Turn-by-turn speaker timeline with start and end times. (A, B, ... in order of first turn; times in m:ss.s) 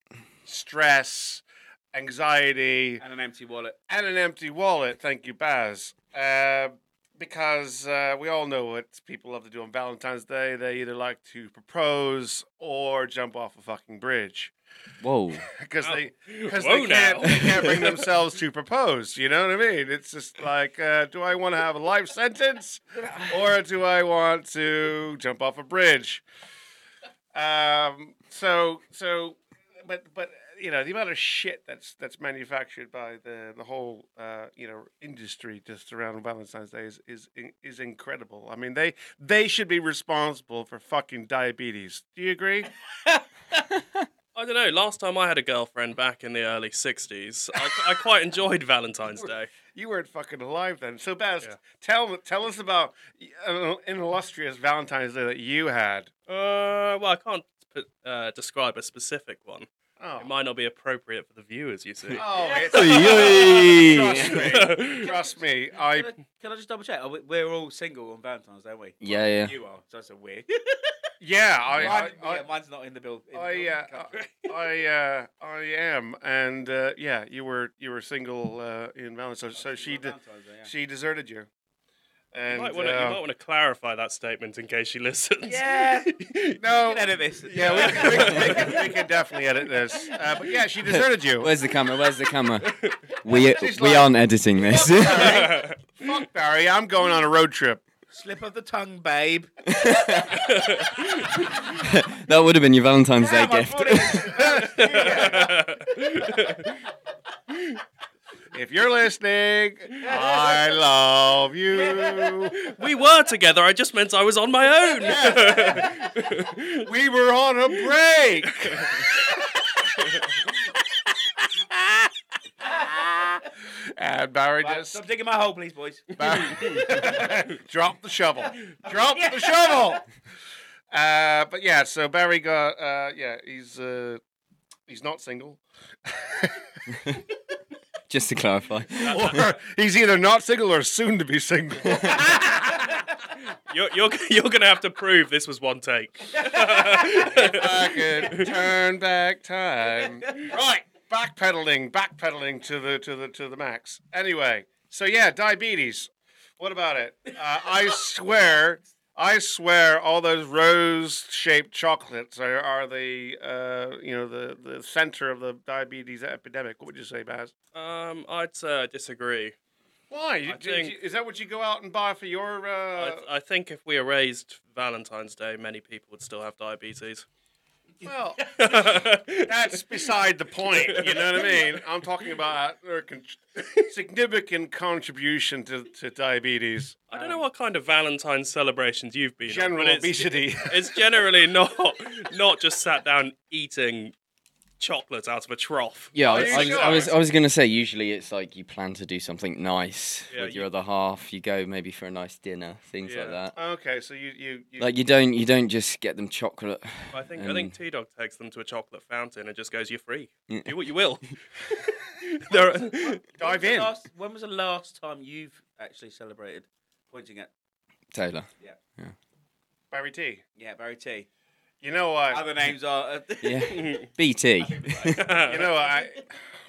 0:00.5-0:03.0 A
0:03.0-0:03.8 B
0:03.9-0:14.5 A
0:15.0-0:15.5 C
0:15.6-0:26.2 A
0:15.8-0:18.1 D
0:27.3-0:42.7 A
0:44.4-0:49.5 D
0:49.2-0:56.1 A
0:56.3-0:59.7 D
1:00.0-1:00.3 A
1:00.2-1:02.2 D
1:02.1-1:06.1 A
1:02.2-1:03.6 B
1:02.7-1:04.6 C
1:04.2-1:05.1 D
1:04.9-1:11.1 B
1:09.0-1:09.5 C
1:11.2-1:12.4 A
1:11.8-1:14.3 B
1:13.3-1:21.5 A
1:19.5-1:20.7 B
1:22.3-1:23.2 A
1:22.5-1:26.6 D
1:25.4-1:28.9 B
1:26.6-1:31.6 A
1:27.5-1:29.1 D
1:30.8-1:35.5 C
1:32.6-1:33.0 D
1:33.4-1:37.8 A
1:35.0-1:35.8 D
1:38.1-1:40.2 B
1:39.7-1:40.4 C
1:40.5-1:41.4 D
1:41.6-1:44.4 C
1:43.2-1:45.4 B
1:44.2-1:45.6 A
1:44.8-1:46.8 D
1:48.5-1:52.6 A
1:50.0-1:50.8 B
1:51.7-1:52.4 B
1:52.6-1:56.9 D
1:55.0-1:56.0 A
1:56.8-1:59.9 A
1:58.6-1:59.0 D
2:01.4-2:02.1 A
2:02.6-2:05.0 A
2:04.6-2:07.3 B
2:06.2-2:10.1 A
2:06.2-2:06.8 D
2:08.8-2:10.0 B
2:10.9-2:14.2 A
2:14.9-2:16.6 A
2:18.1-2:19.5 C
2:19.0-2:23.0 A
2:19.0-2:19.4 D
2:23.5-2:28.6 D
2:26.3-2:27.4 B
2:27.3-2:47.5 A
2:30.0-2:30.5 B
2:47.8-2:49.6 D
2:50.1-2:53.2 A
2:50.5-2:50.9 D
2:53.0-2:57.3 D
2:58.0-3:07.1 A
2:58.6-3:00.1 D
3:00.7-3:01.8 D
3:07.1-3:14.1 D
3:09.4-3:11.0 A
3:14.8-3:17.2 D
3:16.1-3:23.6 C
3:16.2-3:17.1 A
3:20.3-3:20.7 D
3:23.0-3:23.4 D
3:23.5-3:24.9 A
3:24.8-3:27.8 C
3:27.1-3:33.2 D
3:32.9-3:37.5 B
3:33.4-3:33.9 A
3:38.1-3:39.2 C
3:39.9-3:40.4 A
3:40.6-3:41.3 B
3:41.8-3:42.5 A
3:42.3-3:43.9 B
3:43.4-3:45.3 C
3:43.7-3:44.1 D
3:44.6-3:46.0 B
3:45.2-3:45.7 D
3:45.4-3:46.4 A